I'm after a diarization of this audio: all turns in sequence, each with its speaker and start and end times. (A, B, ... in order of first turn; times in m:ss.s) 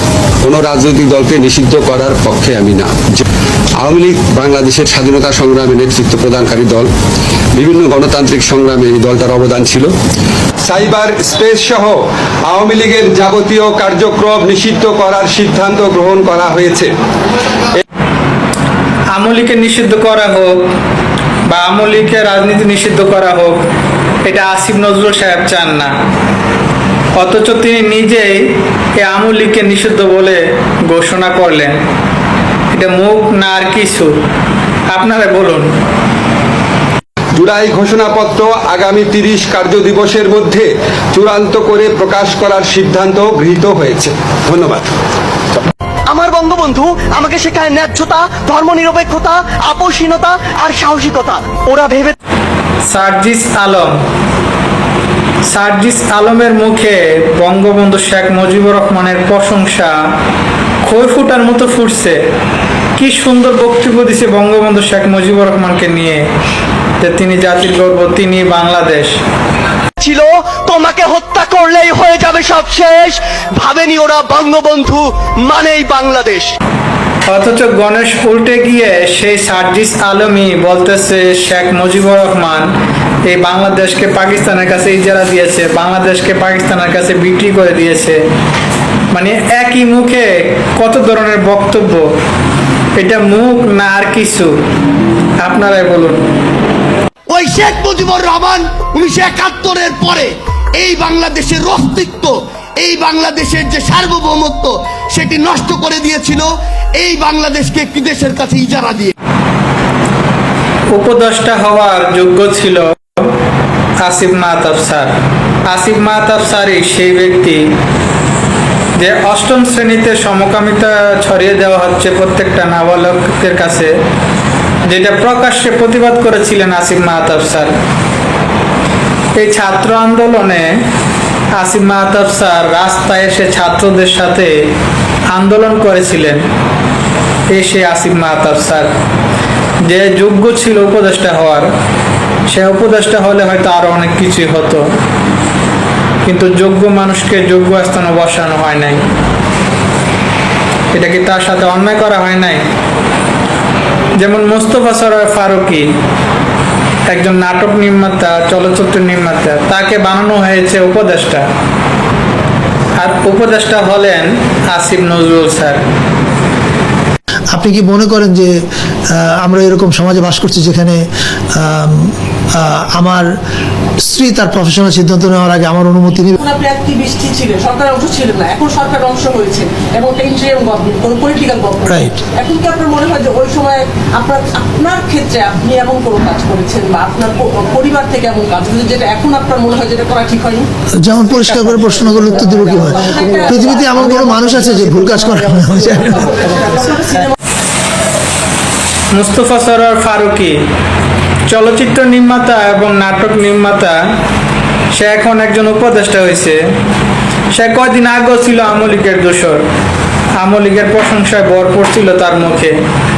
0:00.4-0:03.2 A
0:03.8-0:06.9 A
0:07.6-0:09.9 A
0:10.7-0:12.0 A
0:12.5-0:16.9 A
0:19.1-0:20.7 B
0:21.5-0:23.6 B
0:24.2-0:25.9 B
0:27.2-0:31.8 B
0:32.7-0:34.2 B
0:34.9-0:35.7 B
0:37.4-0:44.9 A
0:46.1-0:52.1 C
0:52.9-0:54.0 B
0:55.5-1:00.0 B
1:00.8-1:02.2 B
1:03.0-1:06.2 B
1:07.0-1:09.1 B
1:10.0-1:16.5 C
1:17.3-1:22.7 B
1:23.3-1:28.2 B
1:29.1-1:32.1 B
1:33.0-1:34.6 B
1:35.4-1:36.3 B
1:37.3-1:49.1 D
1:50.9-1:53.3 B
1:54.0-1:55.1 B
1:55.7-1:57.7 B
1:59.0-2:04.0 B
2:04.9-2:07.7 B
2:09.4-2:10.8 B
2:11.6-2:14.5 B
2:15.3-2:16.4 B
2:17.5-2:18.9 B
2:19.8-2:21.7 B
2:22.5-2:24.8 B
2:26.2-2:29.0 B
2:30.9-2:32.7 B
2:34.2-2:35.9 B
2:37.1-2:41.5 B
2:43.0-2:45.8 B
2:47.5-2:48.5 E
2:49.1-2:51.0 E
2:51.6-2:53.2 E
2:54.1-2:56.3 E
2:56.4-3:10.7 F
3:01.9-3:02.2 E
3:11.0-3:17.2 E
3:12.3-3:14.9 F
3:16.5-3:17.3 F
3:19.1-3:20.6 B
3:21.5-3:24.0 B
3:24.9-3:26.6 B
3:27.5-3:29.6 B
3:30.4-3:32.8 B